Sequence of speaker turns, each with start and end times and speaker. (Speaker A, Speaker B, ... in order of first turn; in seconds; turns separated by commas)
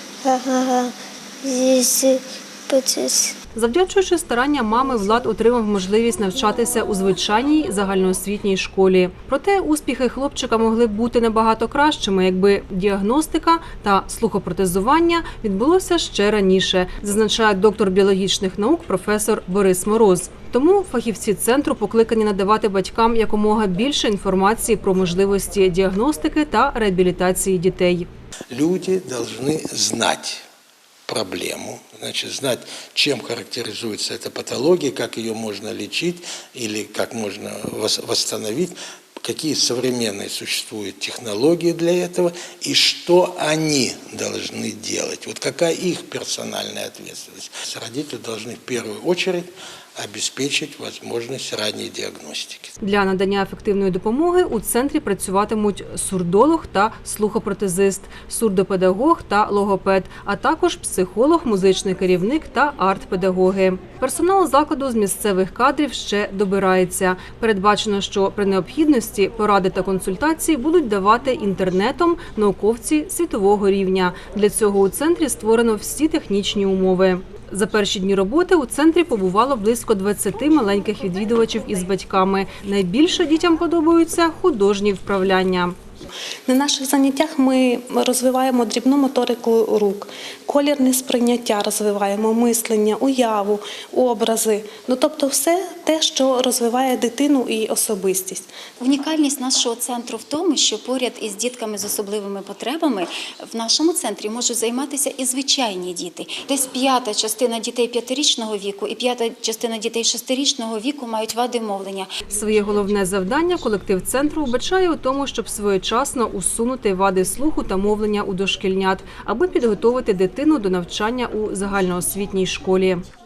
Speaker A: 0.2-3.4, Speaker B: 3.5-28.1, Speaker C: 28.5-30.4, Speaker C: 31.1-52.7, Speaker B: 52.8-85.8, Speaker D: 86.5-98.5, Speaker E: 98.8-112.1, Speaker B: 112.3-123.0